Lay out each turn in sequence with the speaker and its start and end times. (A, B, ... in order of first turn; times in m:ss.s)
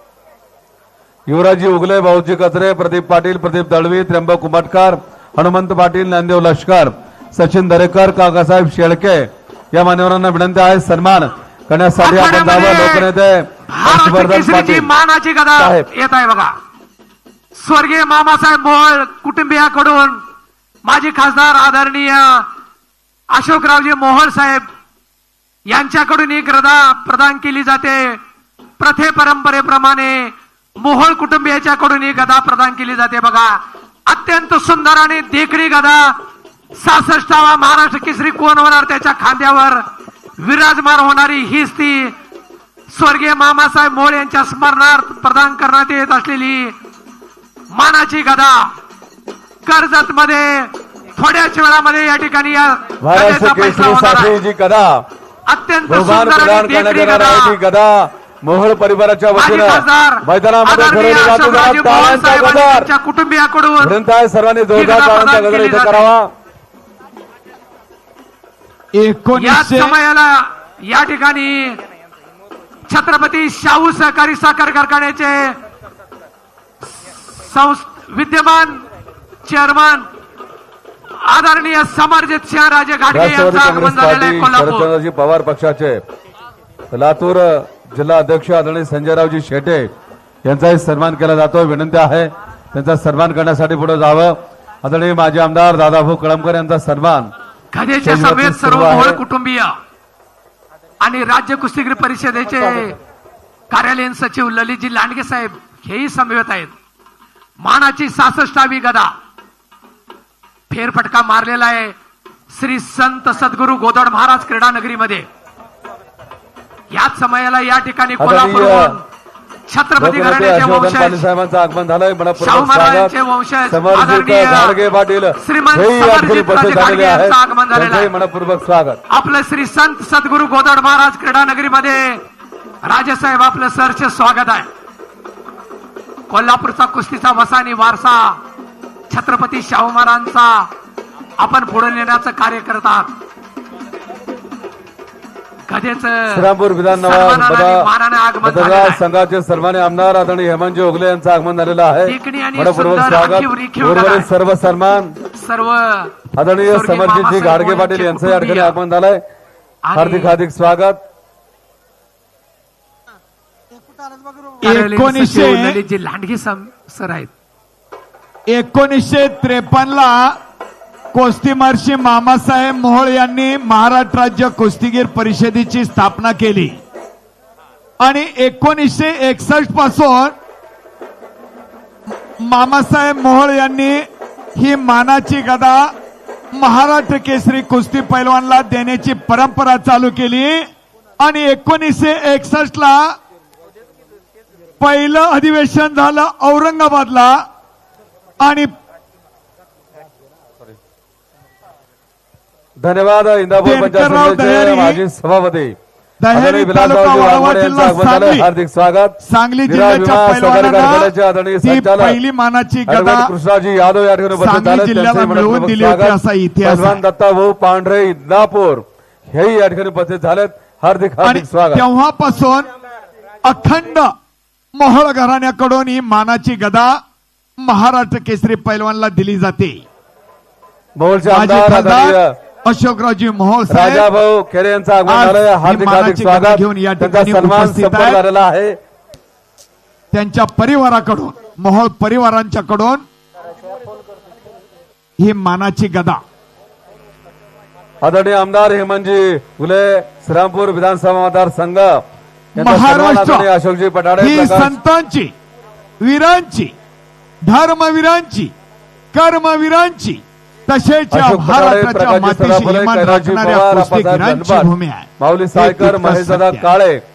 0:01.3-0:14.9 A
0:12.0-0:13.1 B
0:13.7-0:16.5 B
0:15.6-0:15.9 A
0:17.6-0:20.2 B
0:20.8-0:22.5 B
0:23.3-0:24.6 B
0:25.7-0:28.2 B
0:28.8-0:36.1 B
0:36.8-0:39.8 B
0:40.4-0:42.1 B
0:42.9-0:46.7 B
0:47.7-0:48.7 B
0:49.6-0:54.4 B
0:53.0-0:55.0 A
0:55.5-0:57.6 B
0:55.9-1:02.9 A
0:59.3-1:04.0 B
1:03.8-1:06.3 A
1:04.7-1:06.1 B
1:08.9-1:10.0 C
1:09.3-1:11.8 B
1:12.9-1:15.6 B
1:17.0-1:18.8 B
1:19.4-1:20.1 B
1:21.2-1:24.9 B
1:23.1-1:26.0 A
1:26.9-1:29.9 A
1:30.4-1:37.3 A
1:37.7-1:39.7 B
1:38.0-1:39.2 A
1:41.0-1:43.0 B
1:43.7-1:46.7 B
1:47.6-1:49.1 B
1:50.7-1:51.9 B
1:52.5-1:55.3 B
1:56.9-1:59.0 B
1:58.2-1:59.0 A
1:59.7-2:01.2 B
2:00.0-2:09.0 A
2:02.4-2:04.8 B
2:05.4-2:08.1 B
2:09.1-2:12.2 B
2:12.8-2:14.7 B
2:16.3-2:18.4 B
2:19.1-2:20.7 B
2:21.4-2:23.1 B
2:25.7-2:29.0 B
2:26.3-2:27.9 A
2:28.4-2:35.2 A
2:32.0-2:34.3 B
2:35.3-2:38.8 B
2:36.3-2:39.2 A
2:39.8-2:40.4 B
2:39.9-2:41.0 A
2:44.6-2:47.3 B
2:44.6-2:45.8 C
2:48.5-2:50.4 C
2:51.1-2:56.8 C
2:58.0-3:00.3 C
3:02.4-3:05.9 C
3:06.5-3:10.6 C
3:11.2-3:13.2 C
3:14.8-3:17.4 C
3:18.4-3:18.7 C
3:22.8-3:25.7 A
3:23.6-3:25.0 C
3:26.2-3:28.5 C
3:26.3-3:32.2 A
3:29.2-3:33.3 C
3:32.9-3:41.8 A
3:34.3-3:37.0 C
3:41.2-3:42.7 C
3:43.4-3:44.1 C
3:44.8-3:46.9 C
3:47.6-3:49.8 C
3:51.0-3:52.4 A
3:51.3-3:54.1 C
3:53.7-3:58.8 A
3:55.0-3:58.2 C
4:00.1-4:03.0 C
4:05.2-4:06.2 C
4:08.0-4:12.0 A
4:12.6-4:13.5 C
4:12.6-4:14.7 A
4:14.2-4:15.3 C
4:16.0-4:16.7 C
4:17.4-4:18.5 C
4:19.1-4:26.7 C
4:21.1-4:27.0 A